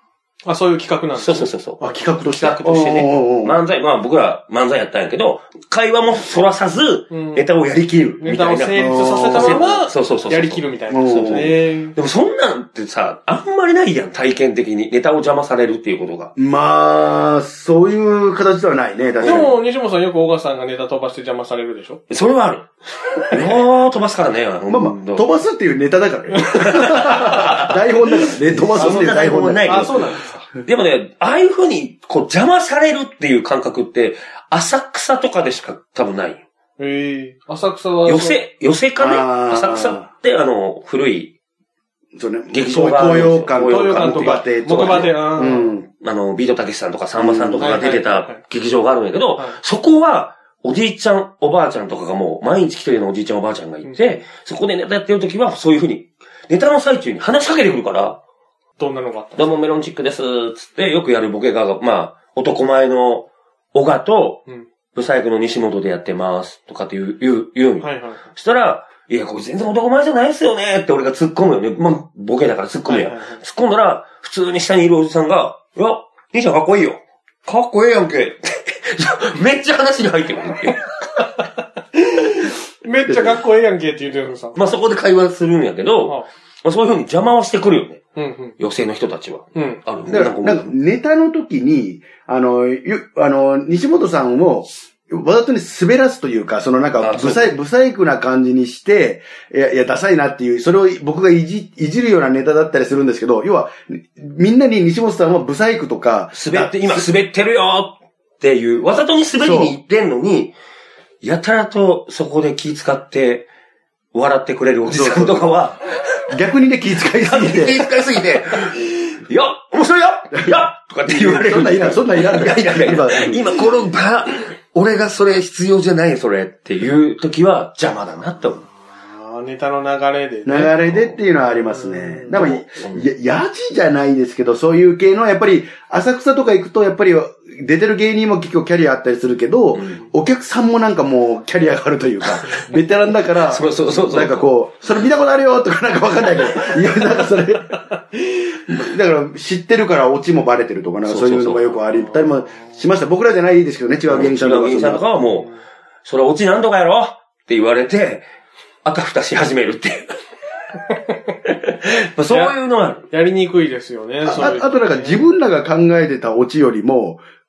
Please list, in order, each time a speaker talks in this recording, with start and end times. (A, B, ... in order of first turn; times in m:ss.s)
0:00.4-0:01.5 A
0:01.2-0:16.3 B
0:01.8-0:03.6 C
0:07.1-0:07.4 A
0:07.7-0:08.2 C
0:08.2-0:11.9 A
0:08.7-0:09.7 C
0:10.9-0:11.5 C
0:16.4-0:19.5 C
0:19.2-0:19.5 B
0:19.2-0:22.0 A
0:22.1-0:25.2 B
0:24.7-0:30.1 C
0:26.5-0:36.4 B
0:28.8-0:30.4 A
0:36.8-0:38.4 A
0:38.0-0:41.3 B
0:39.0-0:40.0 C
0:42.1-0:45.9 C
0:42.5-0:45.3 B
0:43.6-0:45.7 A
0:46.0-0:58.2 B
0:47.2-0:47.8 C
0:47.6-0:48.4 A
0:58.8-0:59.5 A
0:59.4-1:04.4 B
1:04.9-1:20.8 B
1:07.8-1:08.2 A
1:12.9-1:13.4 A
1:21.9-1:24.6 A
1:23.1-1:23.4 C
1:24.5-1:28.0 B
1:28.2-1:28.6 A
1:28.6-1:30.8 B
1:29.5-1:29.8 A
1:30.1-1:47.1 C
1:37.0-1:37.5 B
1:46.3-1:50.5 B
1:49.4-1:49.7 C
1:51.2-1:53.5 B
1:54.1-1:56.2 B
1:54.9-1:55.5 C
1:56.3-1:57.8 C
1:57.2-2:08.6 B
2:00.3-2:03.6 C
2:09.0-2:10.8 A
2:10.4-2:27.8 C
2:11.5-2:12.6 A
2:12.4-2:13.0 B
2:19.7-2:20.0 B
2:23.2-2:24.5 B
2:28.7-2:35.0 C
2:31.0-2:31.8 B
2:32.0-2:32.7 A
2:34.1-2:35.5 B
2:36.0-2:38.2 B
2:38.8-2:40.1 B
2:41.4-2:43.0 B
2:42.3-2:42.5 A
2:43.1-2:45.3 A
2:44.2-2:47.2 C